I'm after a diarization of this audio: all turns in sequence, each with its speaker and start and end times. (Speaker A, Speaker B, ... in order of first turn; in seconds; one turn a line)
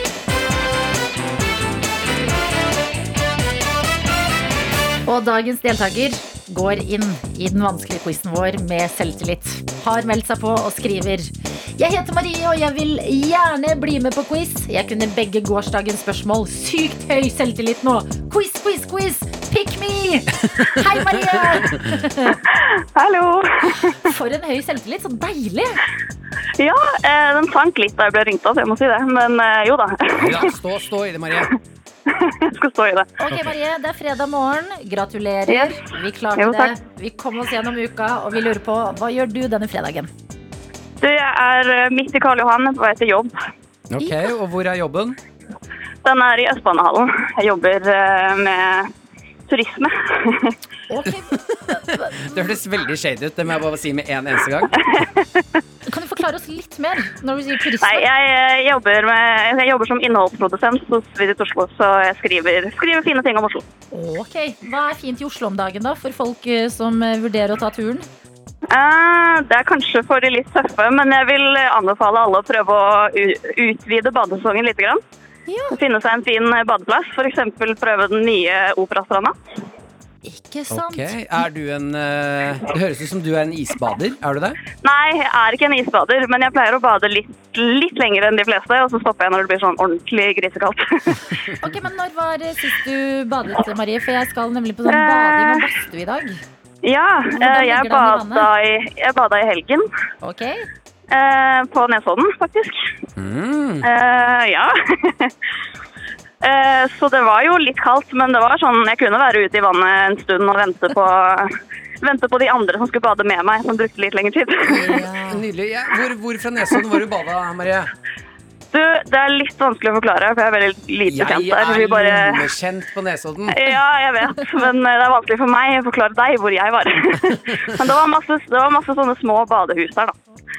Speaker A: 5.1-22.4
Speaker B: 21.4-21.7
Speaker C: 22.5-23.9
Speaker A: 23.7-25.8
Speaker C: 26.6-30.5
Speaker B: 30.2-31.5
Speaker C: 32.1-33.1
Speaker A: 33.2-40.1
Speaker C: 35.5-35.8
Speaker C: 36.4-36.7
Speaker C: 41.0-43.4
Speaker B: 43.9-45.2
Speaker C: 46.0-48.9
Speaker C: 49.5-50.6
Speaker A: 50.9-52.4
Speaker B: 51.7-54.8
Speaker C: 54.9-55.5
Speaker A: 55.9-58.1
Speaker C: 57.8-63.7
Speaker A: 63.9-68.1
Speaker C: 68.7-75.0
Speaker A: 75.5-75.8
Speaker C: 75.7-79.3
Speaker A: 80.2-81.2
Speaker B: 80.7-84.6
Speaker C: 84.8-91.2
Speaker A: 91.6-96.4
Speaker C: 94.9-95.7
Speaker C: 96.8-99.9
Speaker A: 97.3-98.5
Speaker A: 100.2-100.7
Speaker C: 101.1-102.9
Speaker B: 103.2-103.9
Speaker C: 103.8-105.3
Speaker C: 106.4-115.1
Speaker B: 114.7-117.9
Speaker A: 114.9-115.4
Speaker C: 118.7-122.4
Speaker B: 121.1-123.6
Speaker C: 123.5-130.2